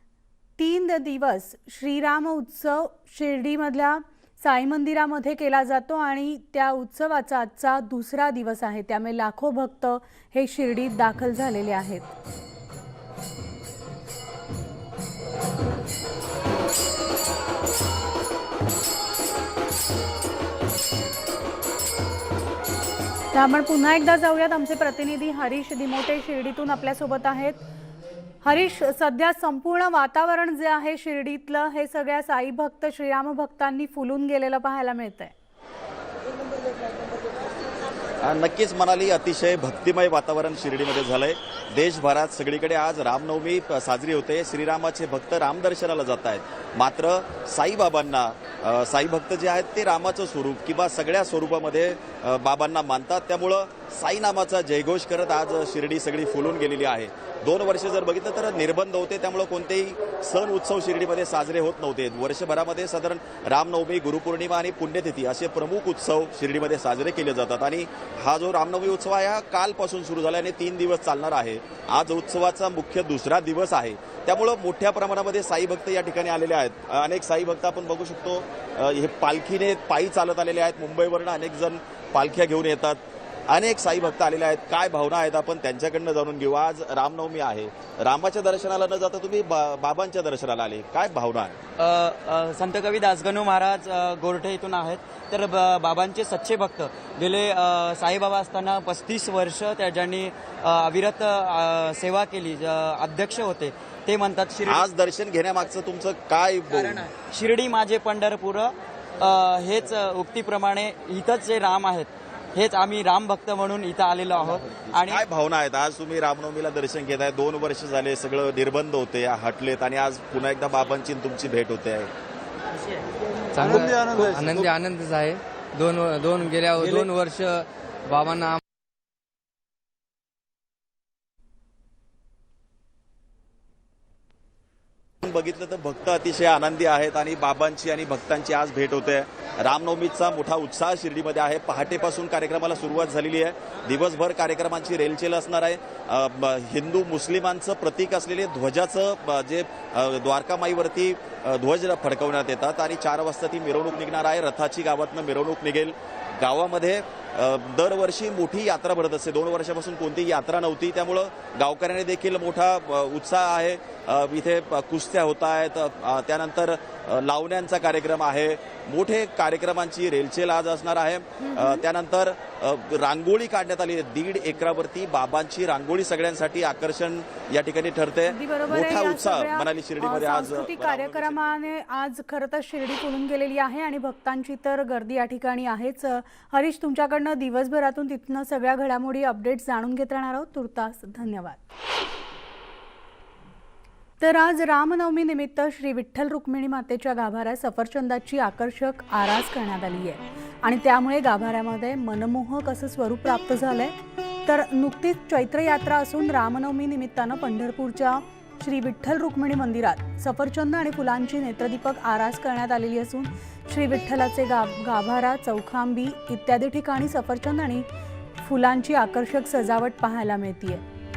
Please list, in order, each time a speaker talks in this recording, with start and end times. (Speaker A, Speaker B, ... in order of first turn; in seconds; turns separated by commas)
Speaker A: 0.6-12.1, Speaker A: 23.3-27.6, Speaker A: 28.4-35.3, Speaker B: 38.2-91.6, Speaker C: 91.8-104.8, Speaker B: 104.7-107.1, Speaker C: 106.7-115.2, Speaker B: 115.0-122.1, Speaker D: 123.5-128.6, Speaker B: 135.2-181.6, Speaker A: 171.4-171.8, Speaker A: 178.3-191.6, Speaker A: 194.2-217.9, Speaker A: 218.4-220.8